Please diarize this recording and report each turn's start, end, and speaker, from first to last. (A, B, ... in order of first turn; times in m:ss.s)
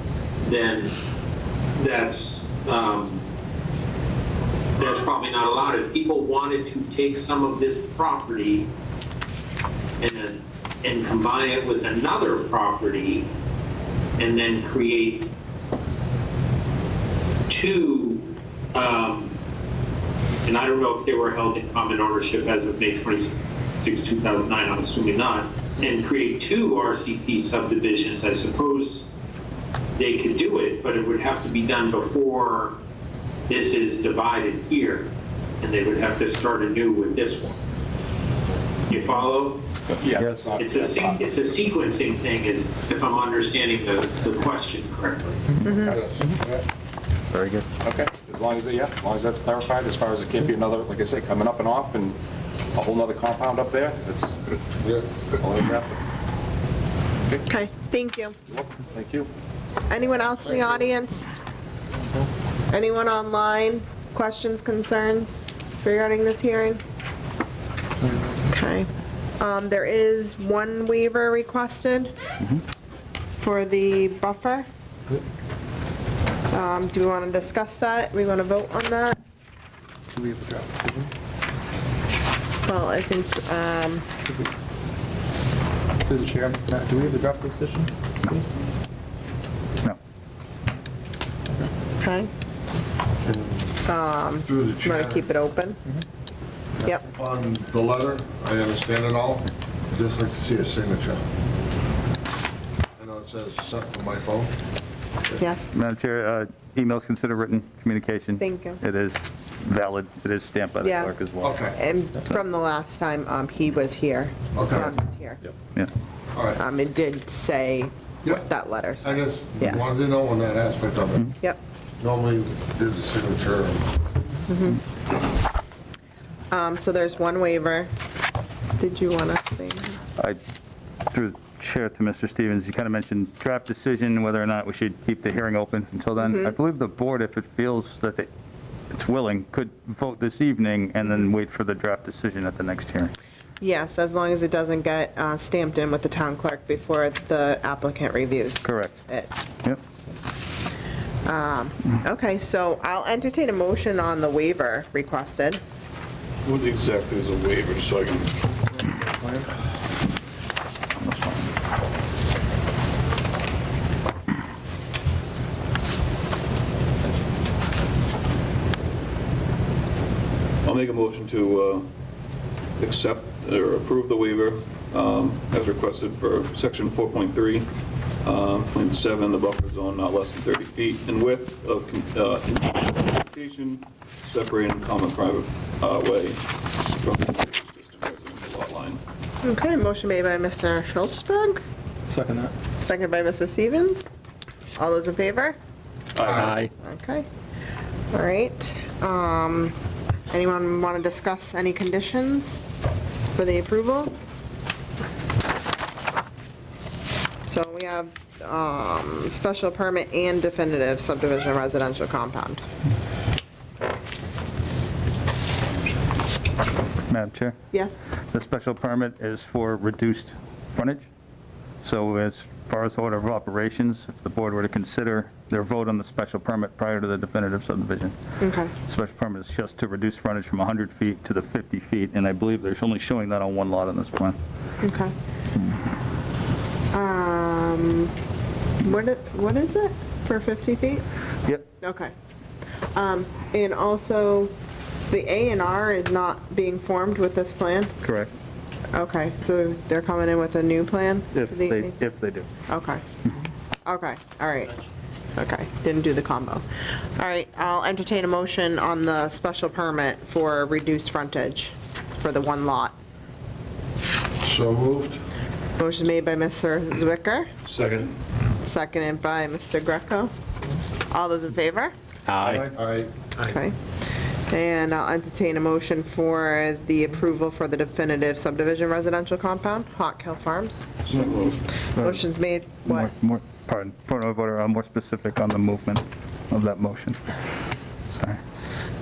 0:00.4-0:00.9 A
0:01.8-0:03.2 A
0:04.8-0:08.7 A
0:10.0-0:13.3 A
0:14.2-0:15.3 A
0:17.5-0:19.3 A
0:20.4-0:29.1 A
0:30.0-0:32.8 A
0:33.5-0:35.1 A
0:35.6-0:37.6 A
0:38.9-0:39.6 A
0:40.0-0:41.6 B
0:40.6-0:45.4 A
0:45.6-0:46.0 C
0:45.6-0:46.1 B
0:46.0-0:46.6 D
0:47.3-0:47.6 E
0:47.8-0:52.2 B
0:52.7-0:56.0 B
0:57.5-0:58.4 C
0:58.5-0:59.3 B
0:59.9-1:01.3 C
1:02.7-1:06.8 C
1:08.5-1:12.1 C
1:13.4-1:14.7 C
1:16.5-1:19.2 C
1:20.1-1:21.1 F
1:22.6-1:24.0 C
1:26.0-1:28.4 F
1:32.0-1:32.3 C
1:33.2-1:33.7 D
1:33.8-1:35.8 C
1:34.4-1:35.2 D
1:37.1-1:41.2 D
1:43.0-1:44.5 D
1:45.4-1:45.7 C
1:45.7-1:51.6 E
1:48.4-1:48.8 C
1:50.8-1:55.4 C
1:51.4-1:51.8 D
1:54.5-1:54.9 D
1:56.3-1:56.6 D
1:56.6-1:59.8 C
1:59.0-2:01.3 D
2:01.3-2:01.6 C
2:02.0-2:03.9 D
2:04.5-2:04.8 C
2:06.5-2:07.9 C
2:08.8-2:10.0 C
2:11.1-2:18.3 E
2:16.2-2:16.6 C
2:18.9-2:23.1 E
2:23.6-2:29.3 C
2:28.6-2:29.0 E
2:31.2-2:35.6 C
2:36.4-2:38.4 G
2:38.9-2:39.4 F
2:41.0-2:41.4 E
2:50.6-2:51.9 G
2:52.8-2:57.7 G
2:58.2-3:09.0 G
3:09.4-3:11.6 C
3:12.0-3:12.5 F
3:12.8-3:14.0 C
3:14.8-3:15.6 C
3:16.2-3:16.7 G
3:16.2-3:16.7 D
3:16.7-3:17.2 C
3:18.1-3:19.7 C
3:20.3-3:22.6 C
3:23.3-3:24.1 C
3:27.5-3:32.6 C
3:37.1-3:37.6 E
3:37.7-3:38.0 C
3:38.3-3:41.1 E
3:41.8-3:48.2 E
3:48.4-3:48.7 C
3:48.8-3:54.4 E
3:54.8-3:55.1 C
3:56.9-3:58.1 C
3:58.8-4:01.0 C
4:01.8-4:02.1 C
4:02.9-4:04.5 C
4:05.1-4:08.0 C
4:08.0-4:08.3 E
4:08.9-4:12.0 C
4:11.3-4:12.5 E
4:12.7-4:13.0 C
4:13.8-4:14.8 C
4:15.4-4:16.6 C
4:17.2-4:23.0 C
4:24.4-4:25.2 D
4:25.8-4:27.5 C
4:27.7-4:28.0 G
4:28.6-4:30.3 C
4:31.1-4:31.9 C
4:32.3-4:33.1 D
4:33.4-4:33.8 C
4:34.5-4:41.1 C
4:41.1-4:41.6 G
4:41.9-4:43.1 C
4:42.0-4:42.2 E
4:42.8-4:47.2 E
4:48.1-4:48.4 E